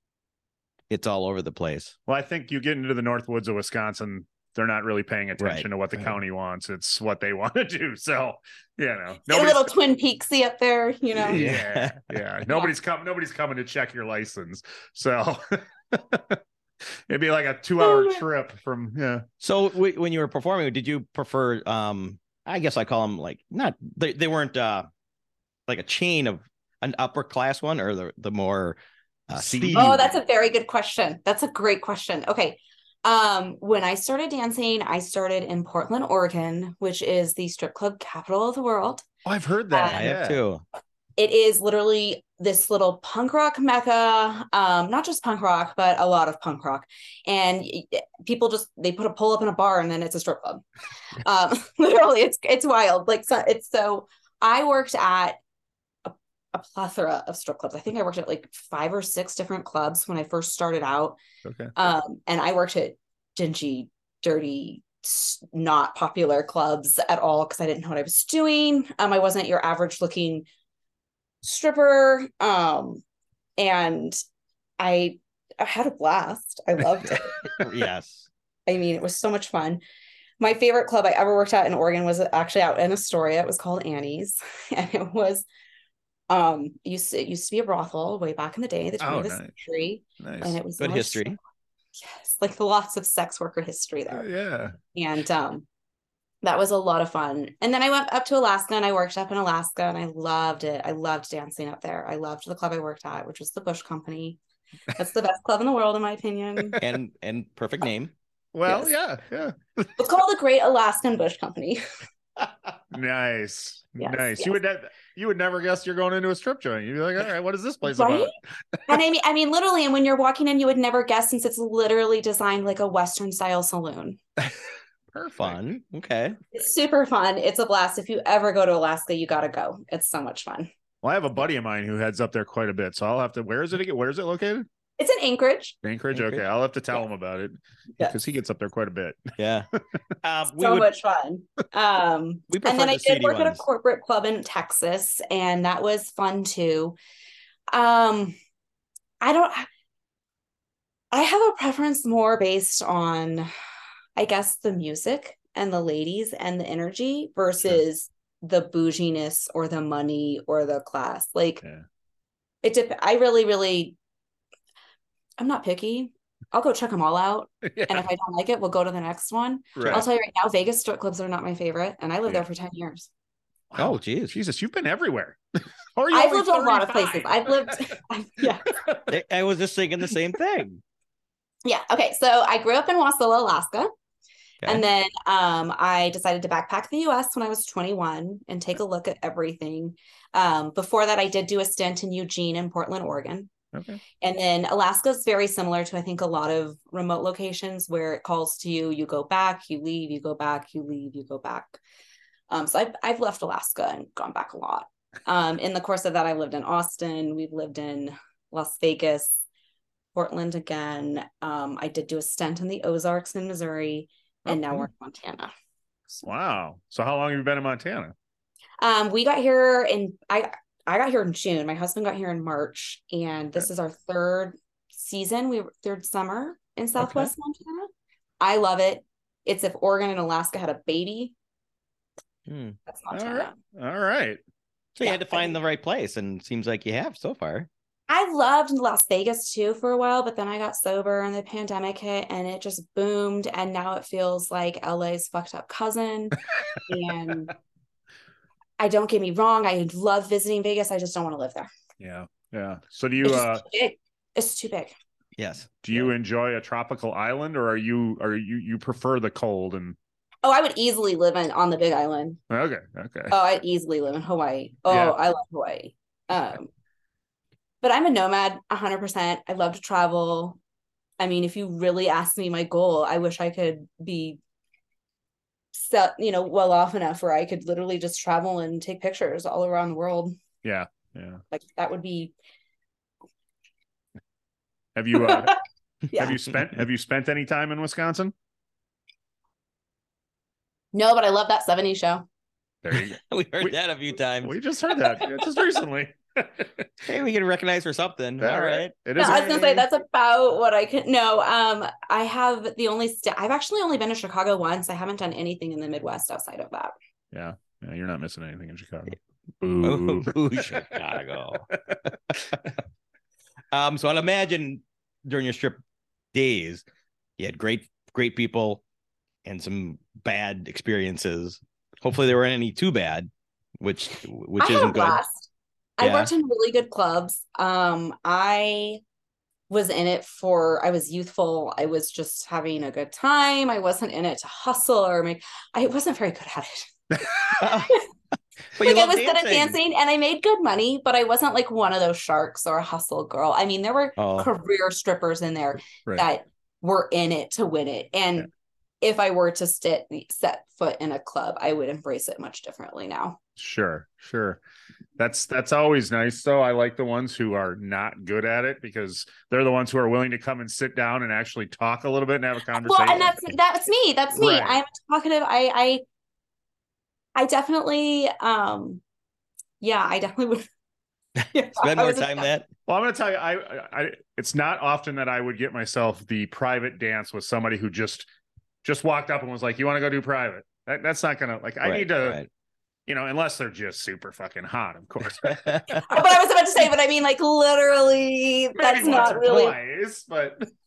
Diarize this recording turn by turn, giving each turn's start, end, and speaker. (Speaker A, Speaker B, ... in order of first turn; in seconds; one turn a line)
Speaker A: 0.9-1.9
Speaker B: 2.1-9.7
Speaker A: 5.4-6.2
Speaker C: 9.3-11.5
Speaker A: 11.2-12.2
Speaker B: 11.3-16.4
Speaker B: 17.1-19.2
Speaker C: 17.8-18.2
Speaker A: 19.4-24.9
Speaker A: 25.7-30.0
Speaker B: 29.4-30.1
Speaker C: 29.7-39.0
Speaker B: 39.2-40.4
Speaker C: 39.7-40.1
Speaker A: 39.9-40.6
Speaker C: 41.2-50.6
Speaker C: 51.2-55.4
Speaker C: 56.0-61.2
Speaker B: 61.5-61.7
Speaker C: 61.8-70.5
Speaker C: 71.4-73.0
Speaker C: 73.6-74.2
Speaker C: 74.8-77.3
Speaker A: 77.1-78.3
Speaker C: 78.7-79.8
Speaker C: 80.4-85.5
Speaker C: 86.3-91.4
Speaker B: 89.0-89.5
Speaker B: 90.2-90.6
Speaker A: 90.8-91.4
Speaker C: 92.0-94.3
Speaker B: 94.1-94.8
Speaker C: 94.9-95.7
Speaker C: 96.4-104.4
Speaker C: 105.0-106.8
Speaker A: 106.8-108.1
Speaker B: 108.5-109.9
Speaker C: 110.0-111.8
Speaker B: 112.9-118.3
Speaker C: 114.0-114.6
Speaker C: 117.9-118.3
Speaker C: 118.9-124.2
Speaker B: 125.1-125.6
Speaker A: 125.3-126.4
Speaker C: 126.5-130.7
Speaker B: 131.0-134.7
Speaker C: 135.0-135.8
Speaker B: 135.8-139.2
Speaker A: 136.1-137.0
Speaker A: 139.4-139.7
Speaker A: 140.2-140.9
Speaker C: 140.5-147.0
Speaker A: 142.5-143.6
Speaker C: 147.7-148.4
Speaker C: 149.2-149.7
Speaker C: 151.1-153.5
Speaker C: 154.2-161.6
Speaker C: 162.6-164.0
Speaker C: 165.4-173.1
Speaker B: 167.6-168.1
Speaker B: 169.8-170.1
Speaker B: 173.7-175.4
Speaker A: 173.8-174.4
Speaker B: 175.9-177.9
Speaker C: 176.1-178.7
Speaker B: 178.7-179.1
Speaker A: 179.1-180.8
Speaker C: 181.7-183.9
Speaker C: 184.7-193.5
Speaker B: 193.7-194.0
Speaker C: 194.2-201.8
Speaker C: 202.5-209.4
Speaker C: 210.2-215.5
Speaker B: 214.5-214.9
Speaker B: 216.2-218.1
Speaker C: 218.8-227.9
Speaker B: 227.0-227.3
Speaker C: 228.4-231.3
Speaker A: 232.5-232.8
Speaker C: 232.9-233.6
Speaker B: 233.1-234.4
Speaker A: 234.9-237.7
Speaker C: 235.0-235.6
Speaker C: 238.1-247.5
Speaker C: 248.8-251.7
Speaker B: 252.0-253.7
Speaker C: 253.2-254.9
Speaker A: 255.4-256.1
Speaker B: 255.8-260.0
Speaker C: 260.4-262.4
Speaker B: 262.5-263.4
Speaker C: 263.3-266.7
Speaker B: 264.9-265.2
Speaker C: 267.8-270.6
Speaker C: 271.2-274.4
Speaker C: 275.7-280.4
Speaker B: 280.6-281.4
Speaker C: 281.5-282.3
Speaker B: 284.9-285.6
Speaker C: 285.2-285.5
Speaker C: 286.1-286.4
Speaker B: 286.1-288.3
Speaker C: 290.9-292.3
Speaker B: 292.8-293.8
Speaker A: 292.9-294.5
Speaker B: 294.4-296.9
Speaker A: 297.1-299.7
Speaker B: 298.4-299.9
Speaker C: 299.2-306.9
Speaker B: 307.3-310.9
Speaker A: 309.8-312.1
Speaker A: 313.7-315.8
Speaker A: 316.3-316.8
Speaker A: 317.4-318.8
Speaker A: 319.4-325.2
Speaker C: 324.6-329.0
Speaker A: 326.0-326.3
Speaker C: 329.7-336.9
Speaker A: 337.6-338.0
Speaker C: 337.6-338.0
Speaker A: 338.8-339.8
Speaker C: 338.8-348.5
Speaker A: 344.2-344.5
Speaker C: 349.0-353.4
Speaker B: 353.6-354.6
Speaker B: 355.2-363.6
Speaker C: 362.8-366.0
Speaker B: 364.3-364.8
Speaker C: 367.4-369.0
Speaker C: 369.8-370.7
Speaker A: 371.4-372.7
Speaker C: 371.5-372.5
Speaker B: 372.9-378.3
Speaker B: 378.8-382.4
Speaker A: 381.8-382.5
Speaker B: 383.1-386.0
Speaker A: 385.4-386.0
Speaker C: 386.1-389.8
Speaker B: 388.8-390.6